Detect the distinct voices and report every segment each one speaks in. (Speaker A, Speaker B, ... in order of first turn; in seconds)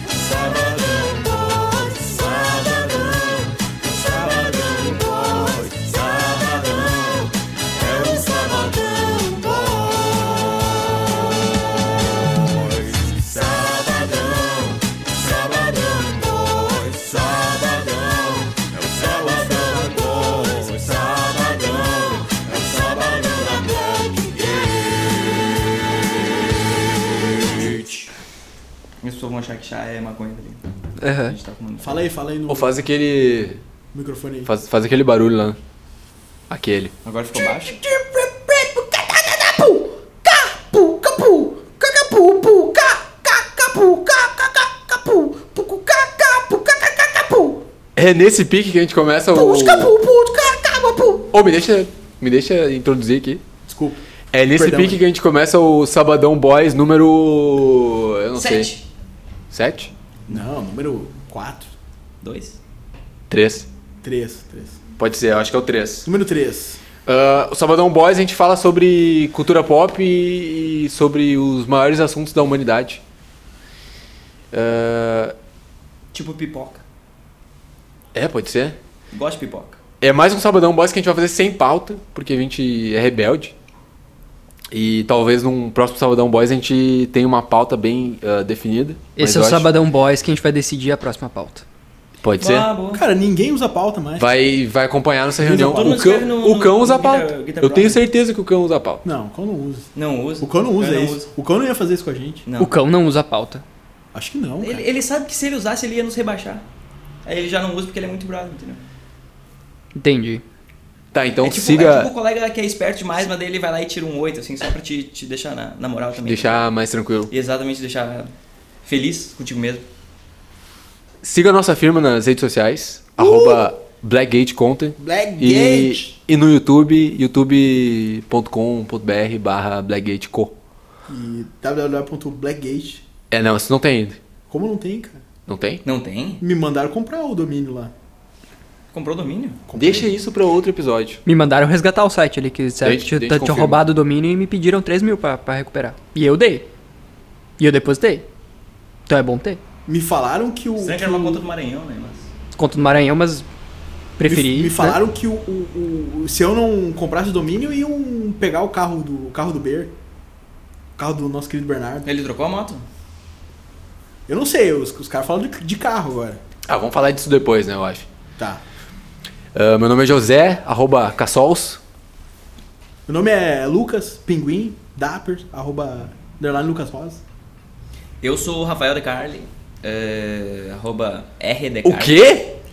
Speaker A: 2.0-2.5, 5.8-7.0, 7.8-8.8, 15.1-16.2, 16.8-17.1, 21.3-21.7, 27.5-27.8, 29.0-30.6, 31.3-32.1, 37.0-37.8, 58.4-58.9, 62.2-62.6, 76.1-76.8, 79.1-79.8, 92.4-93.0, 95.7-98.0, 99.9-101.3, 102.5-102.7, 104.6-106.7, 107.2-108.8, 111.4-116.7, 117.3-118.3, 118.8-119.8, 135.8-136.4, 138.9-139.6, 150.8-152.3, 162.1-162.9, 178.2-182.3
Speaker B: 18.9-20.7, 31.8-32.8, 33.9-34.5, 53.7-55.0, 60.3-61.7, 64.0-64.8, 66.0-66.8, 92.9-94.3, 95.3-96.0, 99.0-99.9, 100.4-102.5, 104.1-104.8, 123.2-123.7, 125.0-126.1, 131.1-133.0, 134.5-135.2, 136.4-137.9, 139.7-140.1, 149.9-151.4, 154.2-159.9, 161.0-162.1, 164.3-166.4, 168.4-168.6, 173.1-177.2
Speaker C: 31.0-31.3, 89.2-91.7, 102.6-103.6, 109.9-110.4, 141.2-146.7, 147.6-148.2, 149.1-149.6, 152.6-153.5, 154.2-155.0
Speaker D: 32.5-33.6, 34.5-35.6, 36.5-36.9, 48.0-50.0, 51.3-53.4, 54.3-58.7, 59.5-59.9, 63.3-63.7, 65.0-66.1, 67.1-73.0, 74.5-75.3, 78.1-78.8, 80.0-83.5, 84.7-89.7, 92.2-92.7, 94.2-99.0, 111.1-112.1, 116.2-117.3, 121.2-130.6, 133.3-134.2, 135.5-135.8, 139.8-141.2, 142.8-143.8, 166.7-168.1, 169.6-171.8, 181.8-182.6